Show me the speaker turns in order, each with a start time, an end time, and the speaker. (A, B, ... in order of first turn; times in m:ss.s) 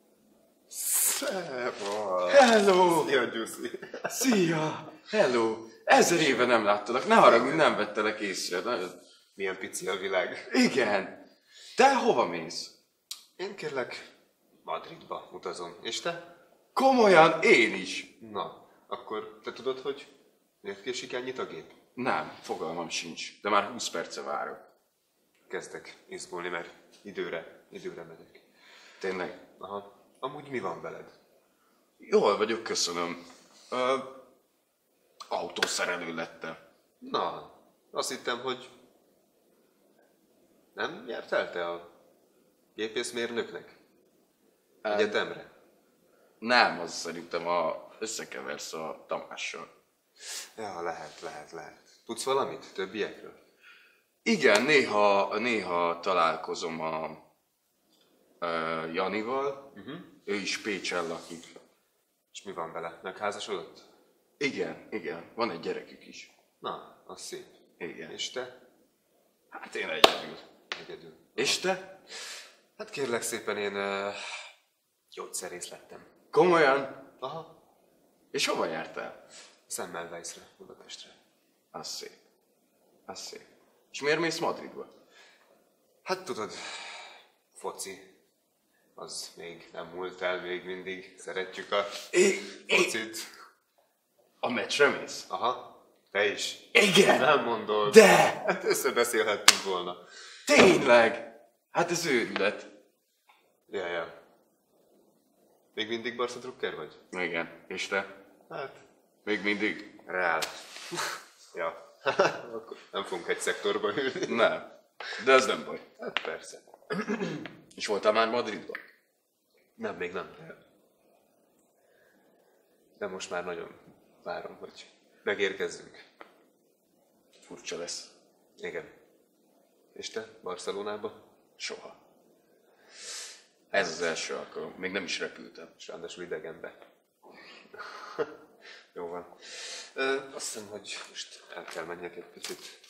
0:00.7-0:04.4 A
0:02.3-0:03.1 B
0:04.1-0:09.0 B
0:05.9-0:06.4 A
0:07.2-0:07.7 A
0:09.4-0:10.5 A
0:10.5-0:11.2 B
0:11.8-0:12.7 B
0:13.4-0:14.1 A
0:14.6-0:16.3 A
0:16.7-0:18.1 B
0:18.2-0:20.1 A
0:20.6-0:21.8 A
0:22.0-0:24.6 B
0:25.5-0:28.4 A
0:29.0-0:29.4 B
0:29.6-0:31.1 A
0:32.0-0:33.2 B
0:33.7-0:34.1 B
0:35.3-0:36.6 B
0:37.0-0:38.7 A
0:40.7-0:41.9 A
0:42.8-0:43.8 A
0:44.8-0:45.2 B
0:44.9-0:45.5 A
0:46.4-0:49.7 B
0:50.6-0:53.4 A
0:54.2-0:57.2 B
0:58.4-0:59.7 B
0:59.7-1:00.1 A
1:00.2-1:01.5 B
1:02.3-1:03.9 A
1:04.4-1:06.3 B
1:06.6-1:08.5 A
1:07.8-1:08.1 B
1:09.5-1:10.4 B
1:10.7-1:11.6 A
1:11.4-1:11.8 B
1:12.8-1:14.4 A
1:15.1-1:16.1 A
1:16.3-1:17.0 B
1:17.2-1:17.5 A
1:18.3-1:19.2 B
1:19.7-1:21.2 A
1:21.7-1:22.2 B
1:23.1-1:24.9 B
1:26.0-1:28.0 A
1:29.0-1:33.3 A
1:32.1-1:32.9 B
1:34.4-1:35.3 B
1:35.3-1:40.0 A
1:36.7-1:37.3 B
1:37.8-1:38.4 B
1:40.5-1:42.7 B
1:43.7-1:44.1 A
1:45.7-1:47.0 A
1:47.1-1:48.1 B
1:48.5-1:48.8 A
1:49.2-1:49.9 B
1:50.0-1:54.5 A
1:54.2-1:55.8 B
1:56.0-1:57.4 A
1:57.7-1:58.8 B
1:59.8-2:00.6 A
2:03.0-2:06.0 A
2:07.4-2:08.1 B
2:08.6-2:08.9 A
2:09.9-2:11.2 A
2:11.6-2:12.0 B
2:13.7-2:15.7 B
2:15.8-2:16.8 A
2:17.7-2:18.3 A
2:18.9-2:22.8 A